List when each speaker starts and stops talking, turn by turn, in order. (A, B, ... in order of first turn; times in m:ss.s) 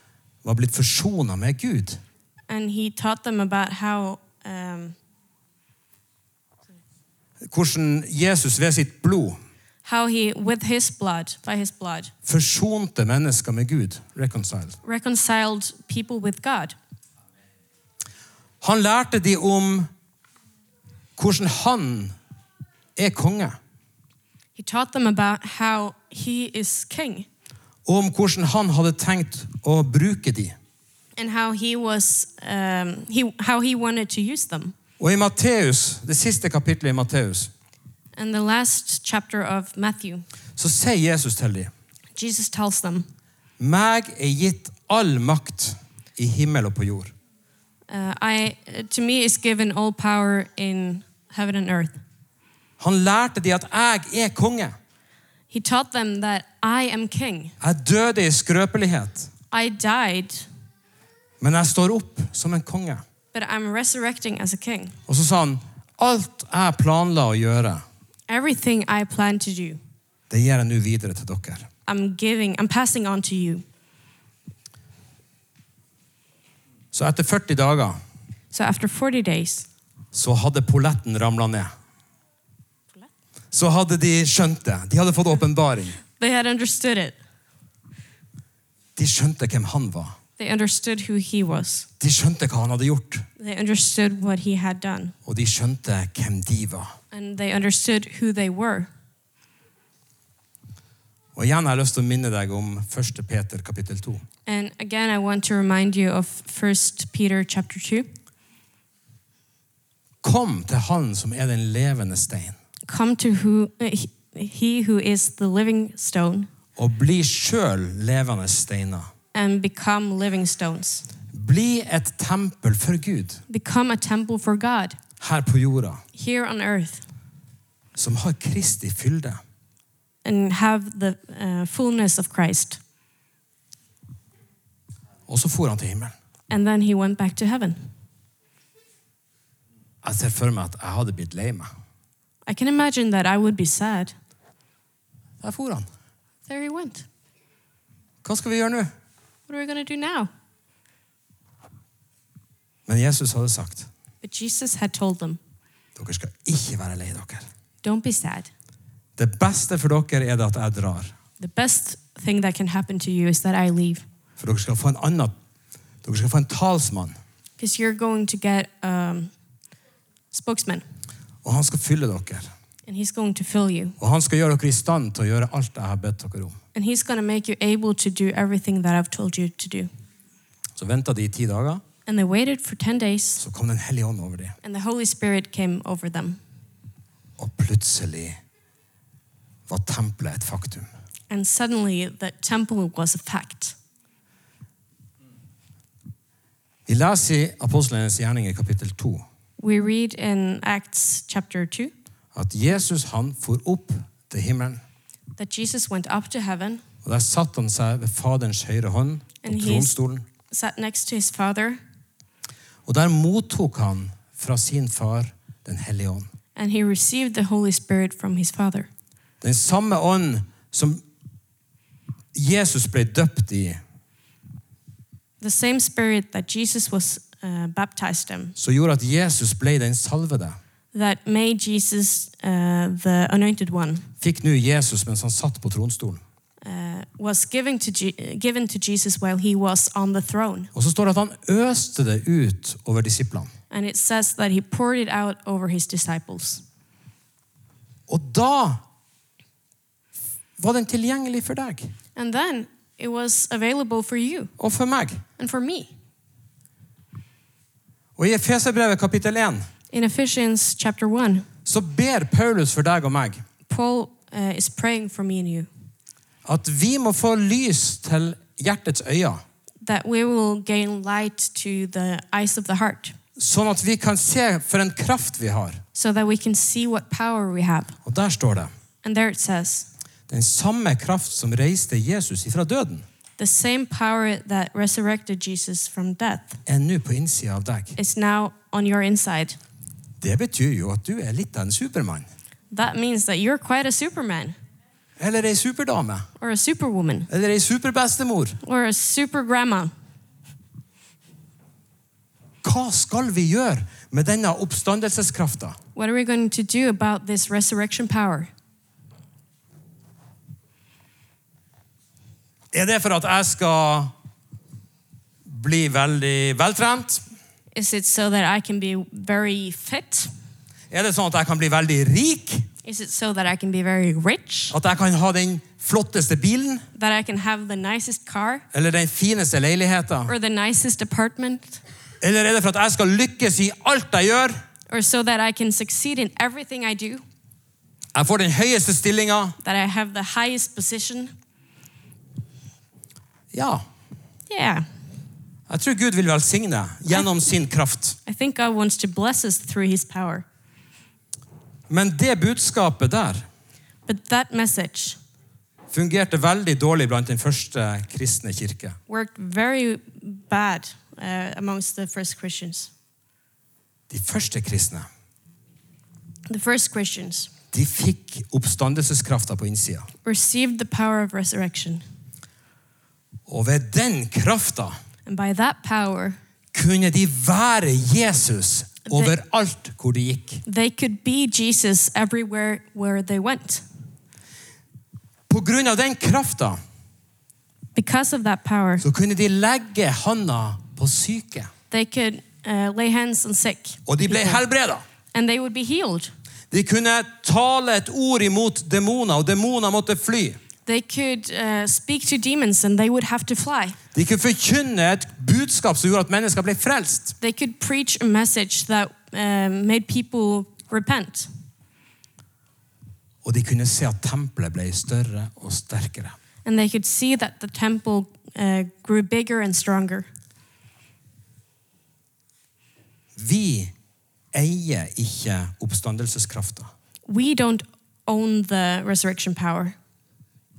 0:00.4-0:02.0 A
0:02.5-0:05.0 B
0:07.4-0:09.4 A
0:09.8-0:12.1 B
0:12.2-0:14.8 A
0:14.8-0:16.8 B
0:18.6-0:19.9 A
0:21.2-0:22.2 A
0:23.0-0:23.6 A
0:24.6-0:27.3 B
0:27.9-0:30.6 A
0:31.2-0:34.8 B
0:35.0-0:37.5 A
0:38.2-0:40.2 B
0:40.6-0:41.7 A
0:42.2-0:43.1 B
0:43.6-0:47.1 A
0:47.9-0:52.0 B
0:52.8-0:54.8 A
0:55.5-0:57.6 B
0:57.6-0:59.3 A
0:59.5-1:00.5 B
1:01.4-1:03.0 A
1:03.3-1:05.0 B
1:05.1-1:07.8 A
1:08.3-1:09.8 B
1:10.3-1:11.7 A
1:11.9-1:13.6 B
1:16.9-1:18.0 A
1:18.5-1:19.7 B
1:20.1-1:21.7 A
1:23.5-1:26.0 A
1:26.2-1:27.2 B
1:29.0-1:30.2 A
1:30.4-1:31.9 B
1:32.0-1:33.3 A
1:33.4-1:35.2 B
1:35.2-1:36.9 A
1:37.1-1:38.9 B
1:41.4-1:44.2 A
1:44.5-1:48.1 B
1:50.2-1:52.6 A
1:52.9-1:56.5 B
1:56.8-1:59.1 A
1:59.3-2:01.1 B
2:01.3-2:03.4 A
2:03.5-2:05.0 B
2:05.2-2:06.0 A
2:06.1-2:07.0 B
2:08.0-2:09.4 A
2:10.2-2:12.8 B
2:15.3-2:16.1 A
2:16.5-2:17.9 B
2:20.0-2:21.7 A
2:22.5-2:24.2 B
2:25.4-2:25.9 A
2:26.5-2:27.1 B
2:28.2-2:28.9 A
2:29.5-2:30.3 B
2:32.9-2:33.9 A
2:34.2-2:35.4 B
2:36.0-2:37.5 A
2:37.8-2:38.5 B
2:39.2-2:41.1 A
2:41.4-2:44.0 B
2:44.4-2:45.3 A
2:46.0-2:47.2 A
2:47.6-2:49.3 B
2:50.3-2:50.8 B
2:51.4-2:52.5 A
2:52.9-2:54.0 B
2:54.0-2:56.6 A
2:56.7-2:59.9 B
3:00.8-3:01.8 A
3:02.1-3:03.4 B
3:03.4-3:04.6 A
3:04.6-3:06.4 B
3:07.4-3:08.4 A
3:09.7-3:10.9 A
3:11.3-3:13.8 B
3:16.9-3:19.2 A
3:19.6-3:21.9 B
3:22.4-3:24.8 A
3:25.4-3:26.8 B
3:27.0-3:30.2 A
3:29.4-3:30.0 B
3:30.5-3:31.8 B
3:32.9-3:36.3 A
3:36.6-3:38.9 B
3:39.4-3:41.0 A
3:42.3-3:43.8 A
3:45.4-3:48.6 B
3:48.6-3:50.6 A
3:50.9-3:54.1 B
3:54.2-3:56.2 A
3:56.6-4:00.7 B
4:00.7-4:03.5 A
4:03.7-4:06.6 B
4:08.1-4:08.8 A
4:10.6-4:11.9 A
4:12.2-4:14.5 B
4:14.6-4:15.2 A
4:15.4-4:15.9 B
4:18.2-4:19.7 A
4:19.9-4:21.5 B
4:21.6-4:23.4 A
4:23.7-4:25.7 B
4:26.4-4:29.4 A
4:29.8-4:33.2 B
4:33.4-4:35.8 A
4:35.9-4:38.0 B
4:38.0-4:38.7 A
4:39.0-4:39.9 B
4:40.3-4:43.0 A
4:43.4-4:46.6 B
4:46.7-4:48.0 A
4:48.0-4:49.6 B
4:50.2-4:52.3 A
4:52.7-4:54.6 B
4:55.2-4:56.3 A
4:56.4-4:57.3 B
4:57.3-4:58.6 A
4:58.6-4:59.9 B
5:02.6-5:05.8 A
5:06.0-5:08.5 B
5:12.7-5:14.1 A
5:15.5-5:17.2 A
5:17.7-5:20.3 B
5:20.9-5:22.7 A
5:22.8-5:24.8 B
5:24.7-5:26.8 A
5:27.0-5:28.6 B
5:28.7-5:30.3 A
5:30.3-5:31.8 B
5:32.2-5:34.6 A
5:34.9-5:37.2 B
5:38.1-5:39.6 A
5:39.6-5:41.3 B
5:43.5-5:43.8 A
5:44.5-5:44.9 B
5:45.7-5:48.2 A
5:48.3-5:50.4 B
5:51.9-5:53.4 A
5:54.1-5:55.2 B
5:55.9-5:59.0 A
5:59.1-6:02.9 B
6:04.1-6:05.1 A
6:06.5-6:07.5 B
6:07.7-6:10.1 A
6:10.2-6:12.0 B
6:13.5-6:15.0 A
6:15.3-6:16.4 B
6:16.7-6:20.6 A
6:19.1-6:19.3 B
6:20.6-6:23.8 B
6:25.5-6:26.8 A
6:28.0-6:29.0 B
6:29.0-6:31.7 A
6:31.9-6:34.6 B
6:34.1-6:35.0 A
6:35.3-6:36.3 B
6:36.7-6:40.6 A
6:40.9-6:44.0 B
6:44.1-6:47.4 A
6:47.4-6:51.5 B
6:53.4-6:56.4 A
6:56.6-7:00.3 B
7:03.4-7:03.9 A
7:04.5-7:06.9 A
7:07.3-7:10.0 B